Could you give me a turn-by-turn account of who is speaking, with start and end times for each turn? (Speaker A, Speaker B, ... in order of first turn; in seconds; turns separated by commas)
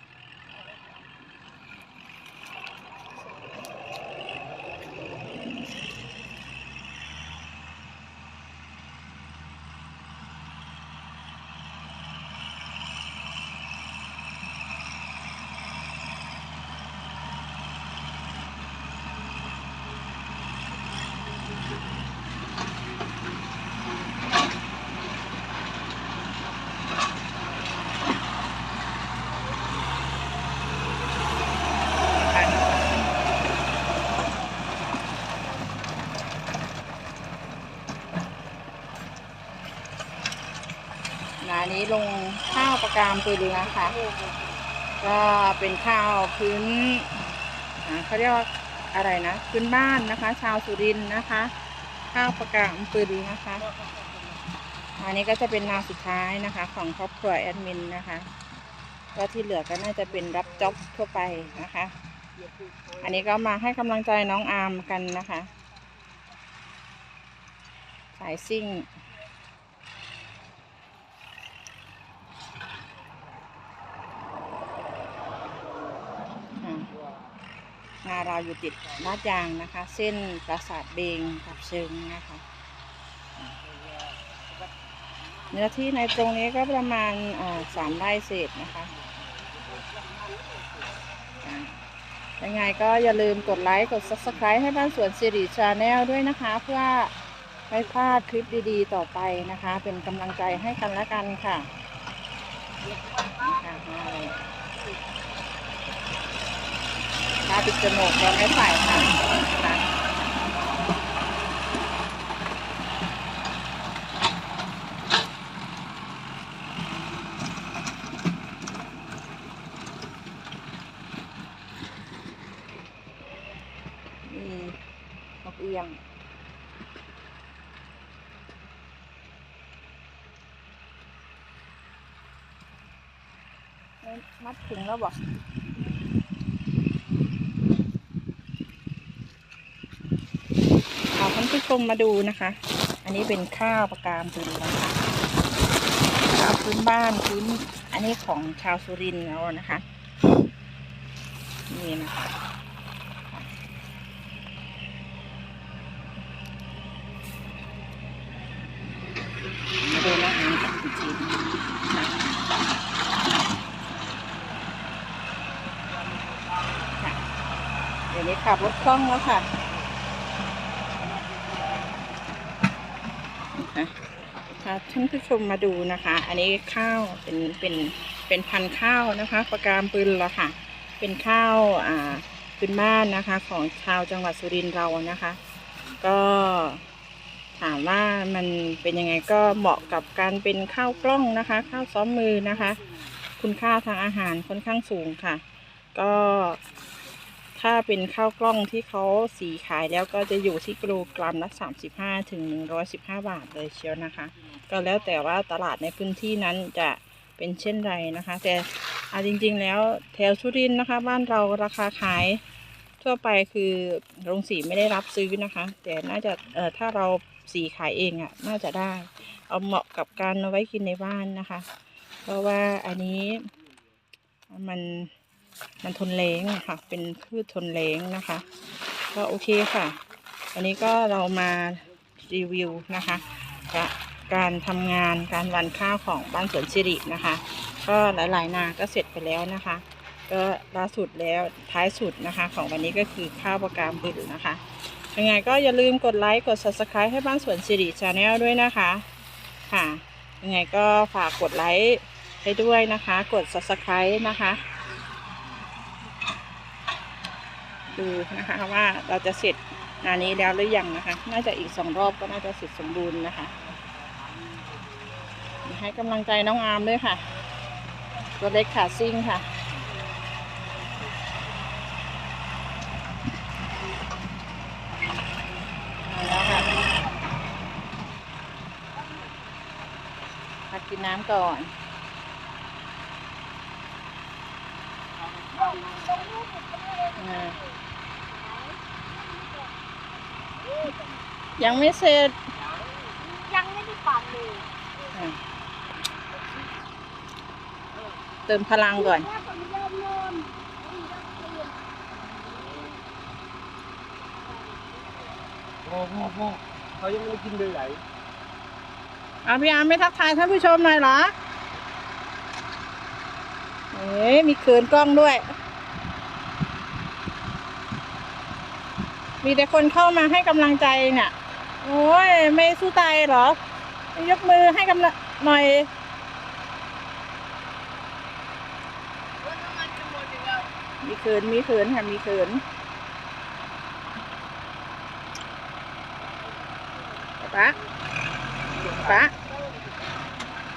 Speaker A: 32.2-32.6, Speaker A: 41.4-44.0, Speaker B: 43.5-44.6, Speaker A: 45.0-47.1, Speaker A: 47.8-51.5, Speaker A: 52.1-53.6, Speaker B: 53.6-54.5, Speaker A: 55.0-58.3, Speaker A: 59.2-61.9, Speaker B: 60.1-61.5, Speaker B: 62.4-63.3, Speaker A: 63.0-65.5, Speaker C: 65.4-65.8, Speaker A: 68.2-68.9, Speaker B: 75.4-76.3, Speaker A: 76.6-76.9, Speaker B: 76.9-77.3, Speaker A: 78.0-82.4, Speaker B: 83.6-85.8, Speaker A: 85.5-88.9, Speaker B: 87.7-88.0, Speaker B: 88.7-90.9, Speaker A: 91.4-91.8, Speaker A: 92.4-97.1, Speaker B: 93.5-94.5, Speaker A: 97.7-101.7, Speaker B: 102.8-105.0, Speaker A: 103.5-104.3, Speaker A: 107.5-109.8, Speaker A: 124.3-124.8, Speaker A: 125.4-126.0, Speaker A: 134.0-135.2, Speaker A: 141.1-145.0, Speaker A: 146.2-149.8, Speaker A: 151.7-152.3, Speaker A: 159.8-161.4, Speaker B: 165.7-167.0, Speaker A: 168.1-169.5, Speaker A: 173.6-173.9, Speaker A: 174.6-185.4, Speaker A: 186.0-186.8, Speaker A: 187.6-192.8, Speaker B: 189.6-190.1, Speaker B: 190.7-191.7, Speaker B: 192.5-193.2, Speaker A: 193.4-195.4, Speaker A: 195.9-196.6, Speaker A: 197.6-212.4, Speaker A: 213.0-221.7, Speaker A: 222.2-223.5, Speaker A: 224.5-225.1, Speaker A: 225.8-228.4, Speaker A: 229.1-230.0, Speaker A: 230.5-244.6, Speaker B: 232.7-233.2, Speaker A: 245.1-249.1, Speaker A: 249.7-254.6, Speaker A: 257.9-263.5, Speaker B: 263.6-265.2, Speaker A: 265.6-267.2, Speaker C: 268.1-269.2, Speaker A: 268.4-269.4, Speaker A: 276.1-276.7, Speaker C: 279.0-279.6, Speaker A: 280.7-281.7, Speaker B: 285.2-286.4, Speaker C: 285.6-287.6, Speaker A: 287.2-287.6, Speaker C: 288.3-289.8, Speaker C: 290.6-291.0, Speaker A: 291.6-292.4, Speaker B: 292.5-293.2, Speaker C: 293.2-294.7, Speaker B: 297.9-298.2, Speaker A: 298.5-299.3, Speaker C: 299.0-302.7, Speaker B: 302.6-303.0, Speaker C: 304.4-305.3, Speaker B: 305.9-308.0, Speaker A: 309.4-311.3, Speaker A: 313.9-315.5, Speaker A: 319.4-323.6, Speaker A: 324.1-325.9, Speaker B: 329.4-330.7, Speaker A: 331.0-332.6, Speaker C: 336.4-337.7, Speaker A: 337.4-337.8, Speaker B: 338.7-340.0, Speaker A: 339.0-339.3